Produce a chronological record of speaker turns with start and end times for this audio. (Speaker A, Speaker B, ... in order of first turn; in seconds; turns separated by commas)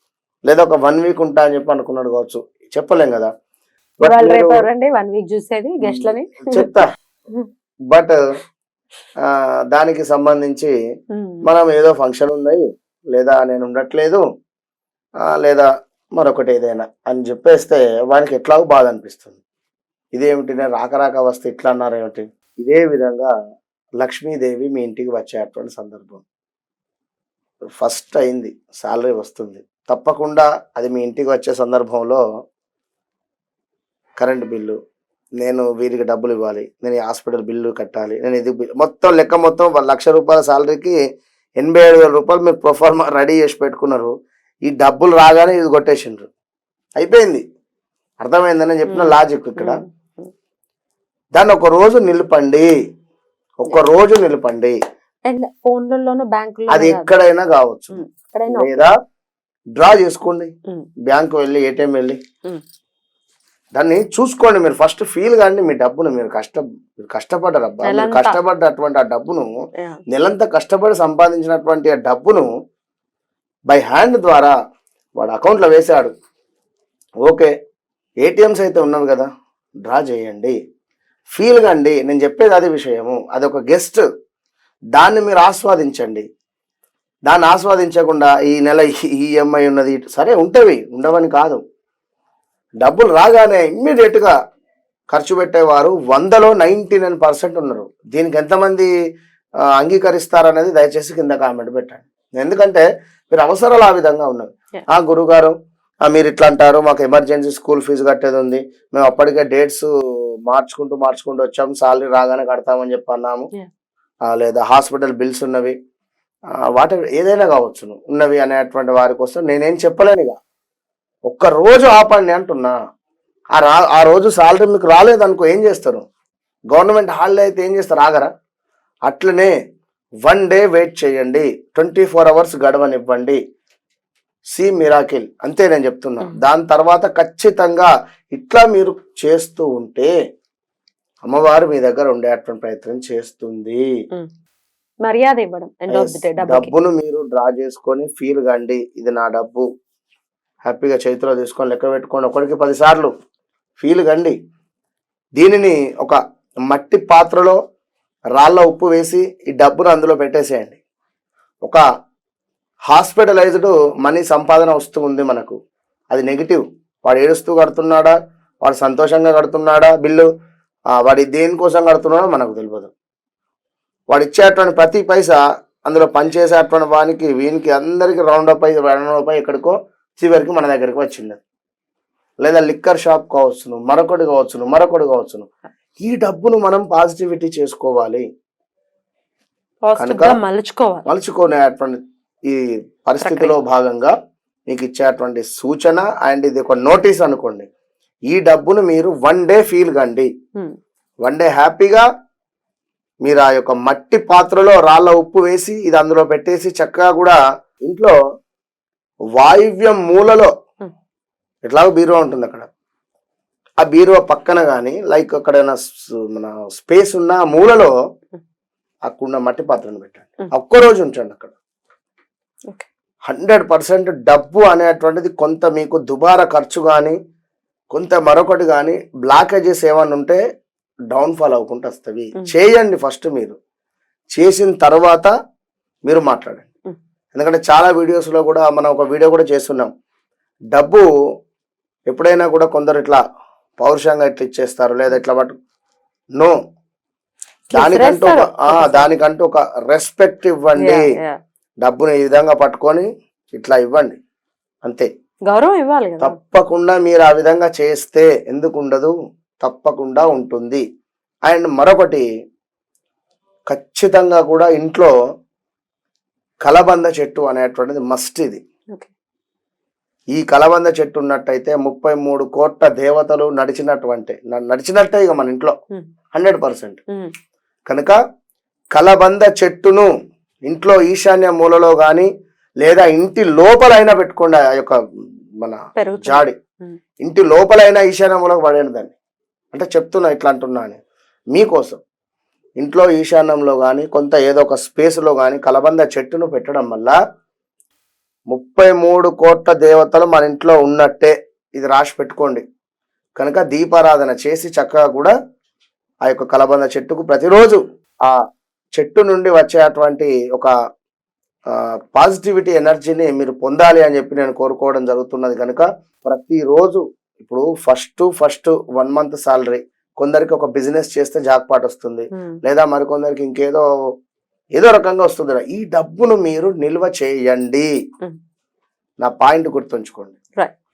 Speaker A: 0.5-3.3, Speaker A: 4.0-4.7, Speaker B: 4.0-7.5, Speaker A: 5.8-6.9, Speaker A: 7.9-8.2, Speaker A: 9.2-10.7, Speaker B: 11.1-11.4, Speaker A: 11.4-14.2, Speaker A: 15.3-19.4, Speaker A: 20.1-23.3, Speaker A: 24.0-26.2, Speaker A: 27.8-32.2, Speaker A: 34.2-34.8, Speaker A: 35.4-41.0, Speaker A: 41.6-44.1, Speaker A: 44.6-46.3, Speaker A: 47.0-47.4, Speaker A: 48.2-49.8, Speaker B: 48.9-50.3, Speaker A: 51.3-52.7, Speaker A: 53.6-54.8, Speaker B: 55.2-57.1, Speaker A: 56.7-58.9, Speaker B: 57.9-58.8, Speaker A: 59.8-60.5, Speaker A: 61.1-62.2, Speaker A: 63.7-69.5, Speaker B: 67.8-68.4, Speaker A: 70.1-72.5, Speaker A: 73.7-74.5, Speaker A: 75.2-76.1, Speaker A: 77.2-77.5, Speaker A: 78.2-79.3, Speaker A: 79.8-80.5, Speaker A: 81.3-84.0, Speaker A: 85.0-86.2, Speaker A: 87.3-91.6, Speaker A: 92.8-94.3, Speaker A: 95.1-98.9, Speaker A: 99.8-105.5, Speaker A: 106.1-109.9, Speaker A: 110.5-113.5, Speaker A: 114.2-115.8, Speaker A: 116.7-120.3, Speaker A: 121.3-122.7, Speaker A: 123.5-126.0, Speaker A: 126.7-128.3, Speaker A: 129.1-129.5, Speaker A: 130.2-133.4, Speaker A: 134.5-140.1, Speaker A: 141.2-143.8, Speaker B: 145.0-146.7, Speaker A: 145.9-149.7, Speaker A: 150.6-153.1, Speaker A: 153.8-154.3, Speaker A: 155.4-157.6, Speaker A: 158.3-160.8, Speaker A: 162.9-165.5, Speaker A: 166.1-170.3, Speaker A: 171.0-172.9, Speaker A: 174.1-181.4, Speaker A: 182.4-185.5, Speaker A: 186.0-188.2, Speaker B: 189.8-191.0, Speaker A: 189.9-190.4, Speaker A: 191.1-194.1, Speaker B: 193.2-193.6, Speaker A: 194.7-197.7, Speaker A: 198.3-200.3, Speaker A: 201.2-202.0, Speaker A: 203.2-208.2, Speaker A: 209.4-210.5, Speaker A: 211.7-212.7, Speaker A: 213.8-217.9, Speaker A: 219.1-221.5, Speaker A: 223.3-227.2, Speaker A: 227.9-230.4, Speaker A: 231.1-233.6, Speaker A: 234.3-235.3, Speaker A: 236.1-236.7, Speaker A: 237.3-239.9, Speaker A: 240.7-241.1, Speaker A: 242.1-243.2, Speaker A: 243.8-245.5, Speaker B: 247.7-249.1, Speaker A: 247.7-251.0, Speaker B: 250.8-251.4, Speaker A: 251.8-254.2, Speaker B: 255.5-256.4, Speaker A: 256.2-260.8, Speaker A: 261.4-262.2, Speaker A: 263.7-265.1, Speaker A: 266.6-268.6, Speaker A: 270.3-275.7, Speaker A: 276.3-277.0, Speaker A: 277.9-278.1, Speaker A: 278.9-280.1, Speaker A: 280.6-282.3, Speaker A: 282.8-285.0, Speaker A: 285.6-286.6, Speaker B: 286.0-287.0, Speaker A: 287.2-289.1, Speaker A: 289.7-291.0, Speaker A: 291.5-292.0, Speaker A: 292.8-297.1, Speaker A: 298.5-302.6, Speaker A: 303.4-305.3, Speaker A: 306.2-308.4, Speaker A: 309.0-310.7, Speaker A: 311.7-323.8, Speaker A: 324.8-327.9, Speaker A: 329.2-330.3